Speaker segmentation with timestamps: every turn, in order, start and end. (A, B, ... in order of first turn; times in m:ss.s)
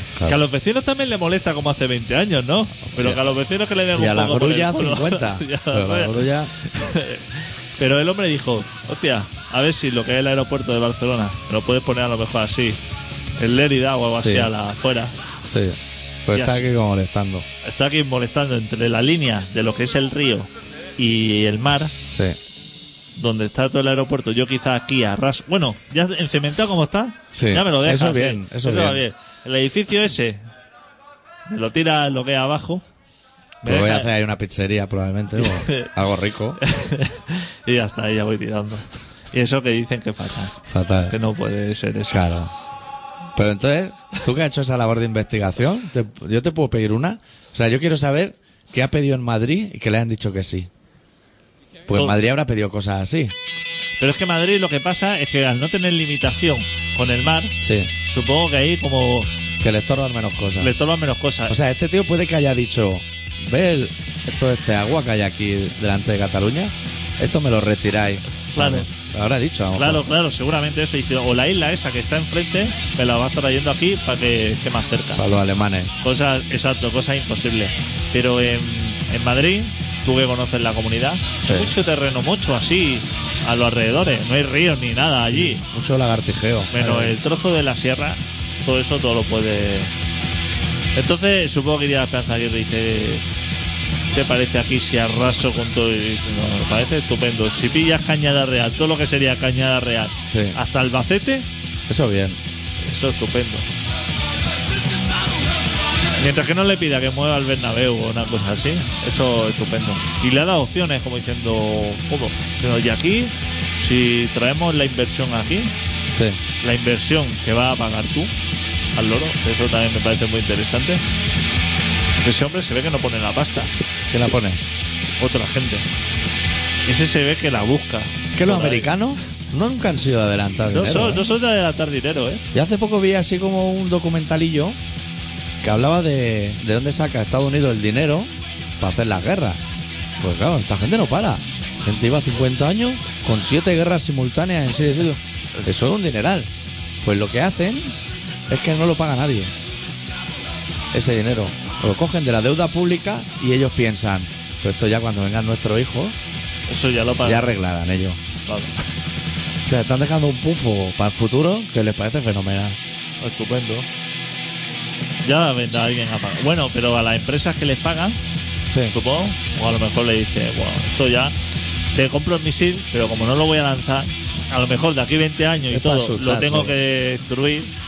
0:00.2-0:12.8 A
0:02.9-0:03.2 B
0:03.9-0:06.5 B
0:13.4-0:15.2 A
0:14.2-0:14.5 B
0:15.4-0:17.4 B
0:16.3-0:16.7 A
0:17.6-0:21.9 A
0:22.1-0:22.4 B
0:23.1-0:30.4 A
0:27.3-0:29.0 B
0:31.5-0:32.8 A
0:33.6-0:34.1 A
0:33.6-0:36.6 B
0:35.4-0:35.9 A
0:36.6-0:40.6 A
0:40.7-0:41.1 B
0:41.1-0:42.2 A
0:42.1-0:42.5 B
0:43.3-0:50.7 B
0:51.9-0:53.3 B
0:51.9-0:52.2 A
0:54.0-0:59.3 A
0:57.6-0:57.9 B
0:59.6-1:00.7 B
1:00.6-1:01.6 A
1:01.5-1:10.0 B
1:08.5-1:08.9 A
1:09.7-1:15.2 A
1:15.2-1:15.9 B
1:16.0-1:25.6 A
1:21.4-1:21.7 B
1:25.3-1:27.2 B
1:26.7-1:29.9 A
1:31.0-1:33.2 A
1:34.1-1:41.5 A
1:40.3-1:40.6 B
1:41.9-1:42.4 B
1:42.8-1:43.7 A
1:46.2-1:55.7 A
1:56.1-1:56.4 B
1:56.6-1:58.3 A
1:59.0-2:01.0 A
2:02.2-2:03.7 A
2:04.1-2:04.6 B
2:05.2-2:05.9 A
2:06.9-2:08.9 A
2:08.3-2:11.3 B
2:10.7-2:12.4 A
2:12.5-2:14.8 B
2:15.6-2:19.6 B
2:20.2-2:26.5 B
2:27.0-2:28.0 B
2:28.5-2:29.5 B
2:30.9-2:36.2 B
2:36.7-2:37.5 A
2:37.2-2:38.2 B
2:38.4-2:38.7 A
2:39.7-2:42.8 B
2:43.2-2:43.9 A
2:45.2-2:48.2 A
2:48.7-2:49.0 B
2:48.9-2:51.3 A
2:51.9-2:57.7 A
2:55.7-2:56.7 B